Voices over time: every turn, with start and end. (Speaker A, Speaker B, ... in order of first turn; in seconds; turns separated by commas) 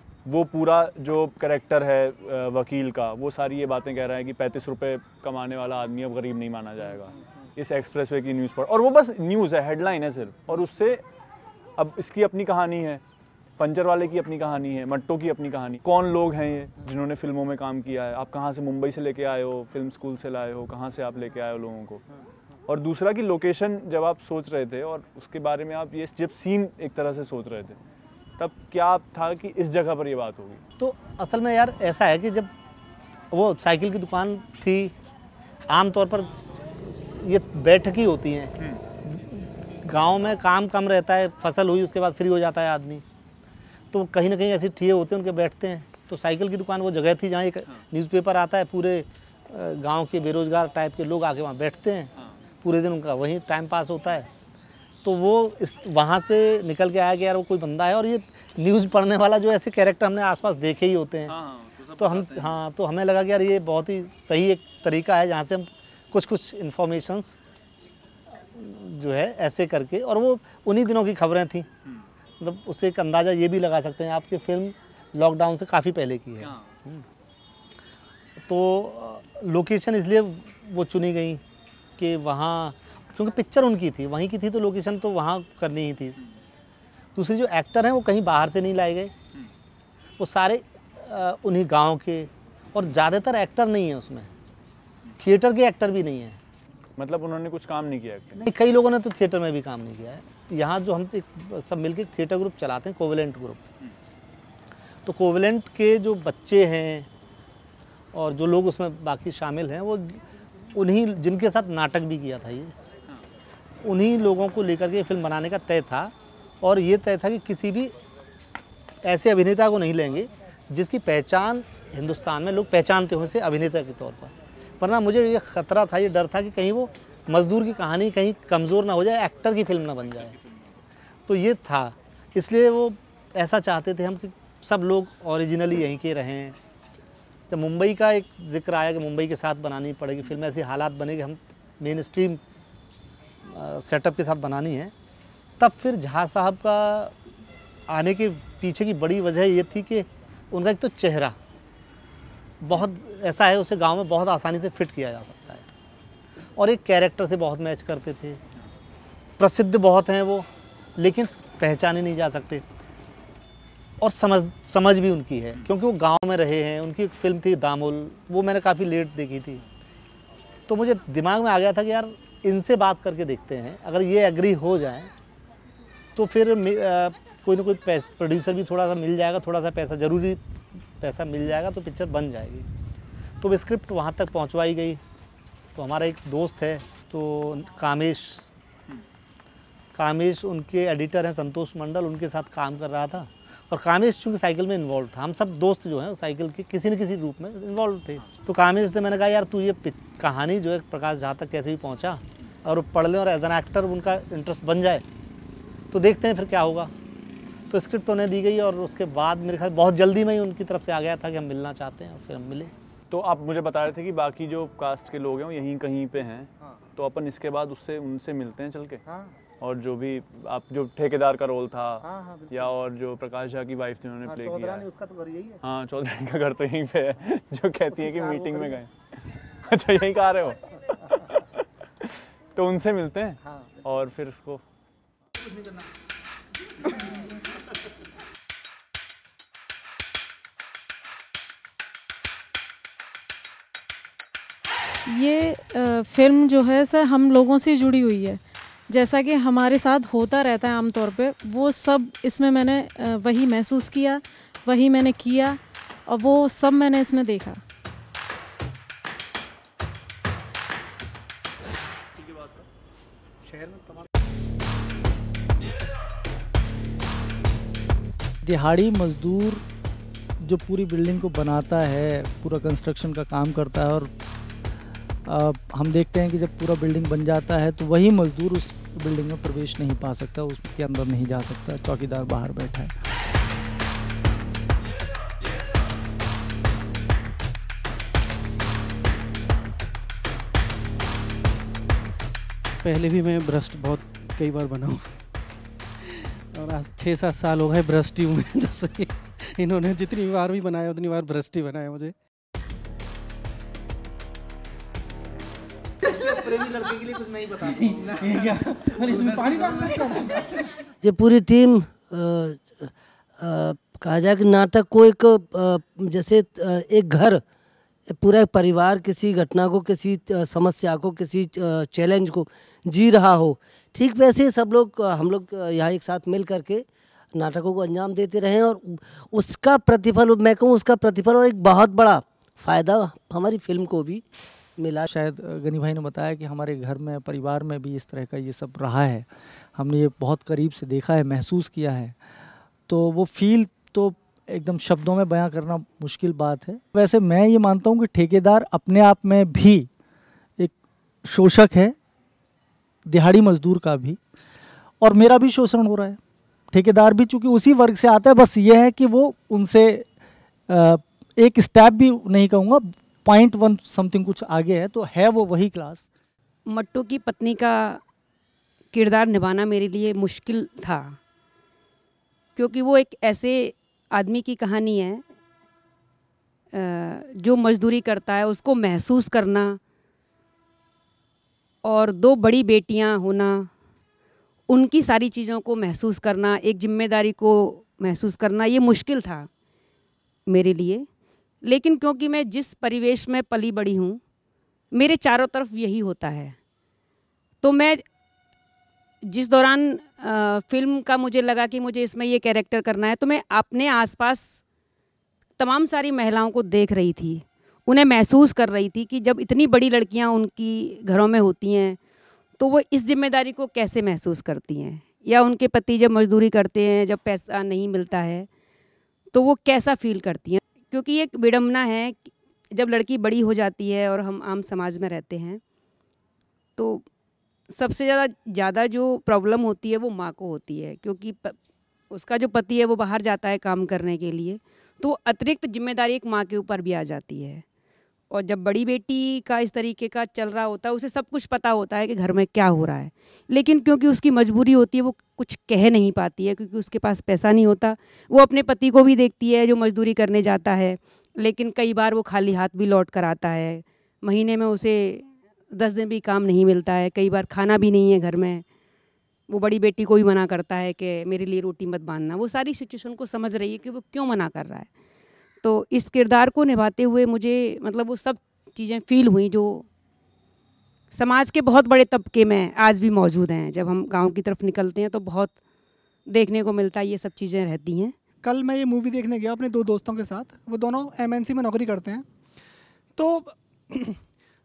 Speaker A: 0.3-11.0, Speaker A: 11.8-13.0, Speaker A: 13.6-22.0, Speaker A: 22.7-27.8, Speaker A: 28.4-30.6, Speaker B: 30.8-32.5, Speaker B: 33.3-34.9, Speaker B: 35.7-36.3, Speaker B: 37.2-43.0, Speaker B: 43.9-52.1, Speaker B: 52.6-54.3, Speaker B: 55.0-61.4, Speaker A: 61.3-62.6, Speaker B: 62.0-67.4, Speaker B: 68.5-71.7, Speaker B: 72.4-77.0, Speaker A: 76.4-76.7, Speaker B: 78.5-81.4, Speaker B: 82.0-86.2, Speaker B: 87.2-89.1, Speaker B: 90.2-94.3, Speaker B: 95.2-96.4, Speaker A: 97.0-98.5, Speaker B: 98.4-103.6, Speaker B: 105.0-107.1, Speaker B: 108.1-112.7, Speaker B: 113.8-117.9, Speaker B: 119.0-130.4, Speaker B: 131.3-136.6, Speaker B: 137.5-142.4, Speaker B: 143.4-144.9, Speaker B: 145.6-147.1, Speaker B: 147.9-151.3, Speaker B: 152.6-155.7, Speaker B: 156.6-158.4, Speaker B: 159.4-162.6, Speaker B: 164.0-169.6, Speaker B: 170.7-175.1, Speaker B: 176.2-180.4, Speaker B: 181.0-182.7, Speaker B: 183.4-185.0, Speaker B: 185.8-188.5, Speaker B: 189.9-205.1, Speaker B: 205.9-206.9, Speaker B: 207.7-212.7, Speaker A: 213.1-219.0, Speaker B: 219.1-219.4, Speaker A: 219.6-224.9, Speaker B: 222.0-222.7, Speaker B: 224.2-225.6, Speaker A: 225.6-228.9, Speaker B: 227.9-228.8, Speaker A: 229.7-234.6, Speaker C: 245.1-257.6, Speaker A: 262.2-262.7, Speaker D: 268.4-269.6, Speaker D: 270.4-274.1, Speaker D: 275.3-282.9, Speaker E: 292.8-295.3, Speaker E: 296.0-302.1, Speaker B: 306.0-310.0, Speaker E: 308.4-310.1, Speaker F: 311.0-317.4, Speaker F: 318.1-334.2, Speaker F: 334.8-335.1, Speaker D: 335.1-342.2, Speaker D: 342.9-349.9, Speaker D: 351.2-351.9, Speaker D: 353.1-354.2, Speaker D: 355.0-356.2, Speaker D: 356.7-360.1, Speaker D: 360.7-366.1, Speaker G: 366.7-368.0, Speaker G: 368.9-371.2, Speaker G: 372.6-375.2, Speaker G: 376.8-379.8, Speaker G: 381.8-383.7, Speaker G: 384.7-389.5, Speaker G: 390.5-391.1, Speaker G: 391.6-394.2, Speaker G: 394.9-396.6, Speaker G: 397.6-398.0, Speaker G: 399.3-404.6, Speaker G: 405.6-412.0, Speaker G: 412.6-418.5, Speaker G: 419.3-425.6, Speaker G: 426.8-427.1, Speaker G: 427.7-431.6, Speaker G: 432.1-437.6, Speaker G: 438.3-458.6, Speaker G: 459.5-464.9, Speaker G: 465.6-469.9, Speaker G: 471.1-475.6, Speaker G: 476.3-478.1, Speaker H: 478.4-482.2, Speaker H: 483.2-484.1